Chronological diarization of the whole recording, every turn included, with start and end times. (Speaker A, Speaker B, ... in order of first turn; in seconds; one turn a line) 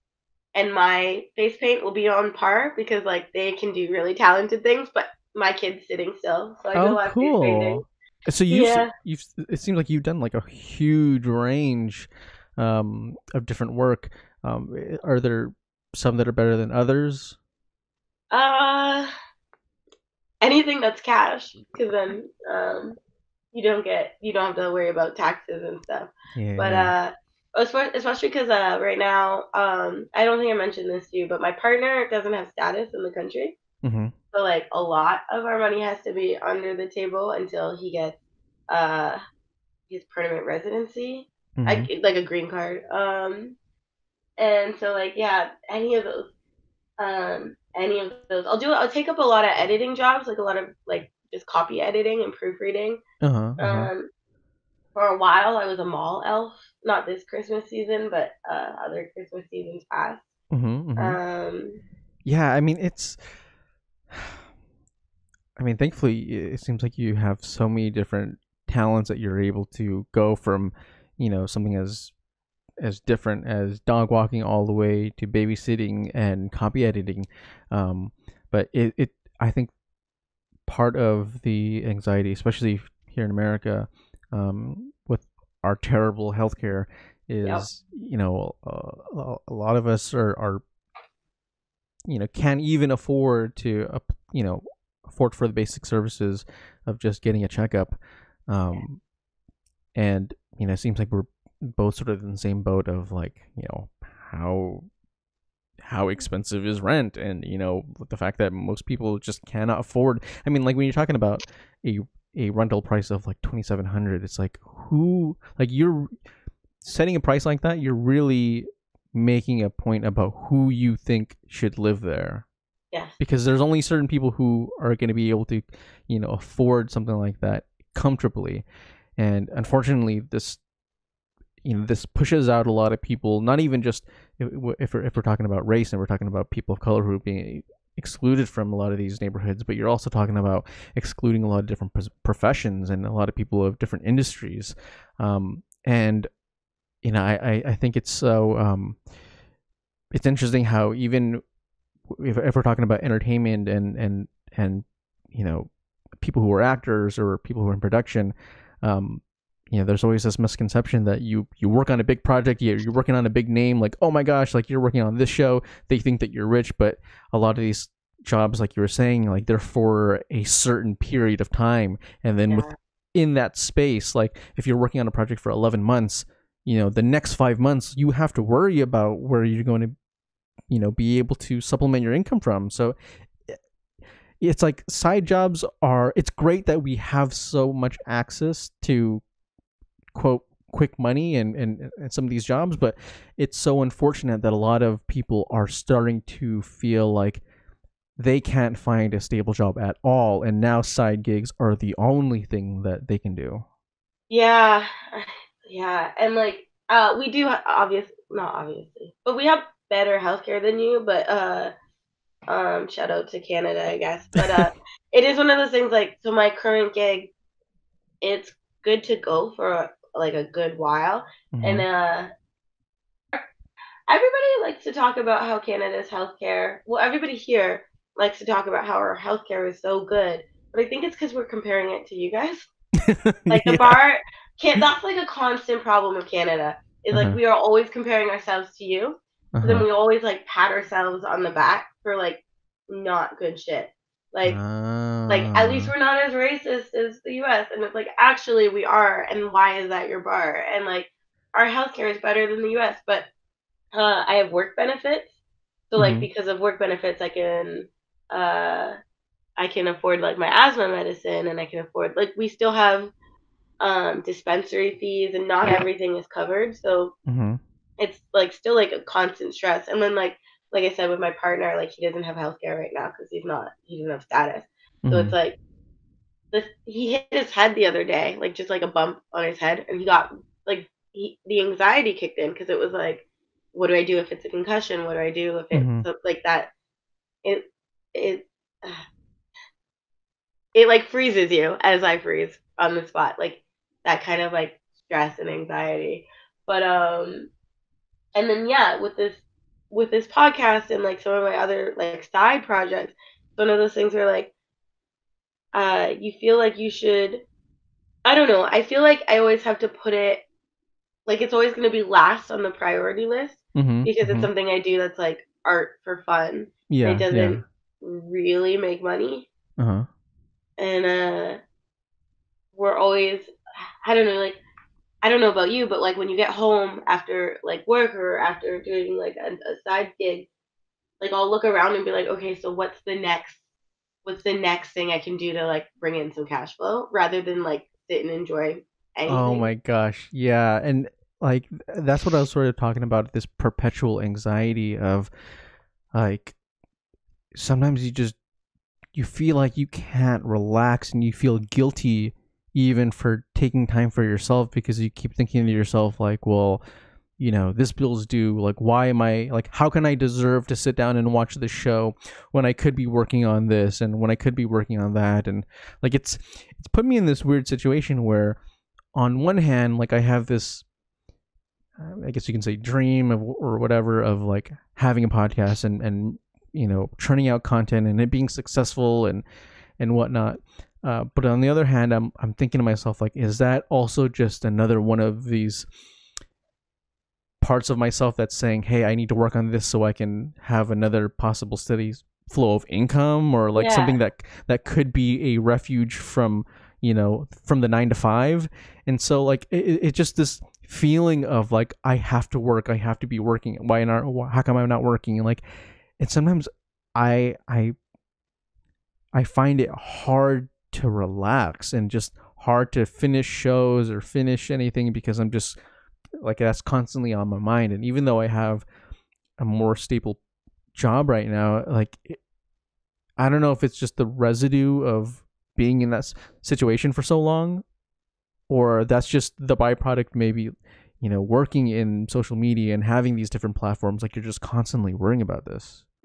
Speaker A: 0.5-7.8
Speaker B: 6.7-17.4
Speaker A: 8.5-8.9
Speaker A: 18.3-19.1
Speaker A: 20.4-23.0
Speaker A: 23.5-33.5
Speaker B: 26.3-26.9
Speaker B: 33.8-34.1
Speaker A: 34.3-38.1
Speaker A: 38.7-39.2
Speaker A: 39.9-43.5
Speaker B: 41.6-41.9
Speaker A: 44.4-46.3
Speaker A: 47.0-53.0
Speaker B: 53.2-53.9
Speaker A: 53.6-54.1
Speaker A: 54.9-60.3
Speaker B: 60.5-61.2
Speaker A: 61.0-61.8
Speaker B: 62.2-63.2
Speaker B: 64.1-64.4
Speaker B: 65.6-72.1
Speaker B: 72.8-79.7
Speaker B: 80.7-90.6
Speaker B: 92.1-99.0
Speaker B: 100.0-104.8
Speaker B: 105.8-116.1
Speaker B: 116.8-122.4
Speaker A: 122.9-123.2
Speaker B: 123.2-128.6
Speaker B: 129.2-130.6
Speaker B: 131.6-146.3
Speaker B: 147.0-149.0
Speaker B: 150.1-151.4
Speaker B: 152.1-179.9
Speaker A: 172.5-172.7
Speaker B: 180.7-182.9
Speaker B: 184.4-189.2
Speaker B: 190.1-197.4
Speaker B: 198.2-203.6
Speaker A: 204.3-211.7
Speaker A: 212.5-217.3
Speaker A: 218.2-222.3
Speaker B: 221.5-221.8
Speaker A: 224.1-232.7
Speaker B: 233.1-234.0
Speaker A: 233.5-244.6
Speaker B: 237.1-237.4
Speaker B: 239.5-239.9
Speaker B: 244.4-245.9
Speaker A: 245.3-253.3
Speaker A: 253.9-255.3
Speaker A: 255.9-258.9
Speaker B: 256.0-256.3
Speaker A: 259.6-263.1
Speaker A: 263.8-267.1
Speaker B: 267.3-267.6
Speaker A: 268.0-275.6
Speaker B: 275.0-275.4
Speaker A: 276.5-286.7
Speaker B: 285.7-286.1
Speaker A: 287.4-289.0
Speaker A: 290.7-297.5
Speaker A: 298.4-304.5
Speaker A: 305.7-307.4
Speaker A: 308.2-310.4
Speaker A: 311.3-319.5
Speaker B: 313.7-314.5
Speaker B: 316.9-317.6
Speaker B: 319.8-320.1
Speaker A: 320.8-321.6
Speaker A: 322.7-323.5
Speaker A: 324.0-324.6
Speaker A: 325.2-330.5
Speaker A: 331.2-333.6
Speaker A: 334.2-339.7
Speaker B: 339.3-345.3
Speaker B: 346.1-346.6
Speaker B: 347.5-348.4
Speaker B: 349.1-356.8
Speaker B: 357.4-368.6
Speaker B: 369.1-370.8
Speaker B: 372.0-379.4
Speaker B: 380.0-385.9
Speaker B: 387.6-405.6
Speaker A: 393.7-394.1
Speaker B: 406.2-407.9
Speaker B: 409.3-415.8
Speaker B: 416.4-418.8
Speaker B: 419.6-420.4
Speaker B: 420.9-422.4
Speaker B: 423.4-427.8
Speaker B: 428.7-436.1